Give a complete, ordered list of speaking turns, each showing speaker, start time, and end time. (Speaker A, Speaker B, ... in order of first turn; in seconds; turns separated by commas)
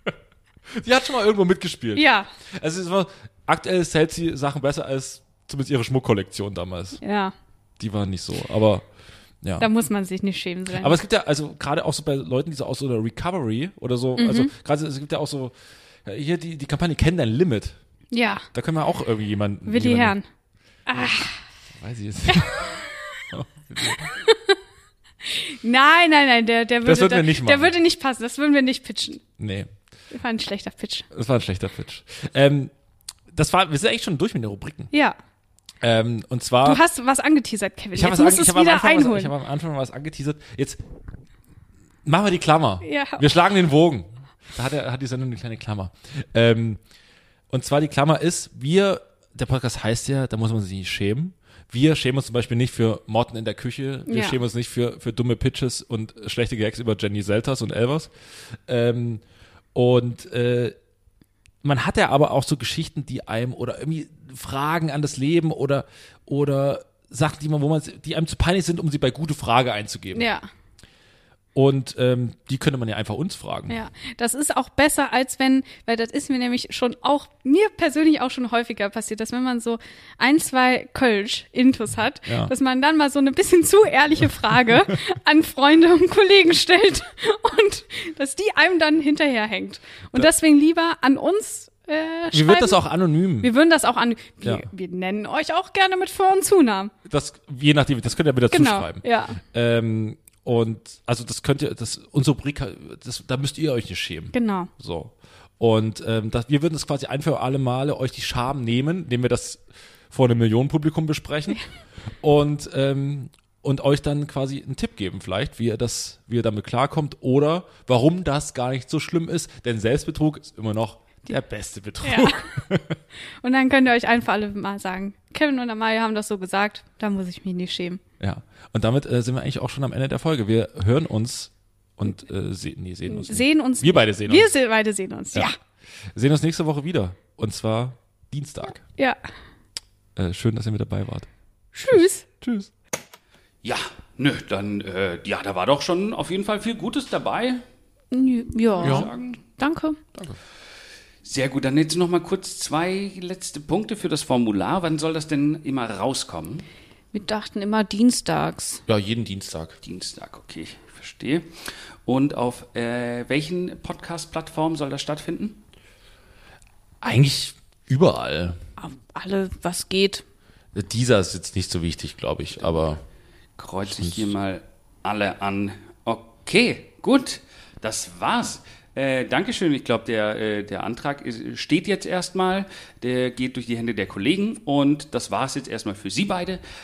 Speaker A: 0.7-7.0, Speaker B: 1.9-2.3, Speaker B: 7.0-7.3, Speaker A: 7.8-8.8, Speaker A: 9.4-9.7, Speaker B: 9.6-11.0, Speaker A: 10.7-15.5, Speaker B: 14.2-14.5, Speaker A: 16.0-17.8, Speaker B: 18.1-18.4, Speaker A: 18.5-20.1, Speaker B: 19.7-20.2, Speaker B: 20.9-21.4, Speaker A: 21.8-24.1, Speaker B: 24.2-24.6, Speaker B: 25.2-29.2, Speaker A: 26.8-27.7, Speaker A: 29.4-29.7, Speaker B: 30.1-31.1, Speaker A: 31.1-32.7, Speaker A: 33.3-34.9, Speaker B: 34.9-35.2, Speaker A: 35.8-36.8, Speaker B: 36.6-39.3, Speaker A: 38.0-40.8, Speaker A: 42.0-46.8, Speaker B: 42.8-43.2, Speaker A: 47.5-58.1, Speaker B: 54.1-54.4, Speaker A: 58.7-59.2, Speaker A: 59.7-60.8, Speaker A: 61.6-70.3, Speaker B: 70.1-70.5, Speaker A: 71.5-73.8, Speaker B: 73.7-92.8, Speaker A: 82.3-82.5, Speaker A: 92.3-93.5, Speaker B: 93.4-96.9, Speaker A: 94.4-94.7, Speaker A: 97.0-111.6, Speaker B: 98.5-99.4, Speaker B: 104.3-104.7, Speaker A: 112.2-123.0, Speaker B: 122.0-122.4, Speaker B: 123.4-128.0, Speaker A: 128.2-134.5, Speaker B: 133.1-135.5, Speaker A: 136.1-138.8, Speaker A: 140.2-141.3, Speaker B: 141.7-142.2, Speaker A: 141.9-142.7, Speaker C: 143.6-147.6, Speaker B: 148.1-150.0, Speaker C: 148.8-149.4, Speaker A: 148.8-149.1, Speaker C: 151.2-156.6, Speaker B: 157.1-158.8, Speaker A: 158.9-159.8, Speaker C: 159.8-161.5, Speaker C: 162.0-165.6, Speaker A: 167.0-168.6, Speaker B: 168.8-170.2, Speaker A: 170.7-173.0, Speaker C: 173.6-186.6, Speaker A: 173.8-174.3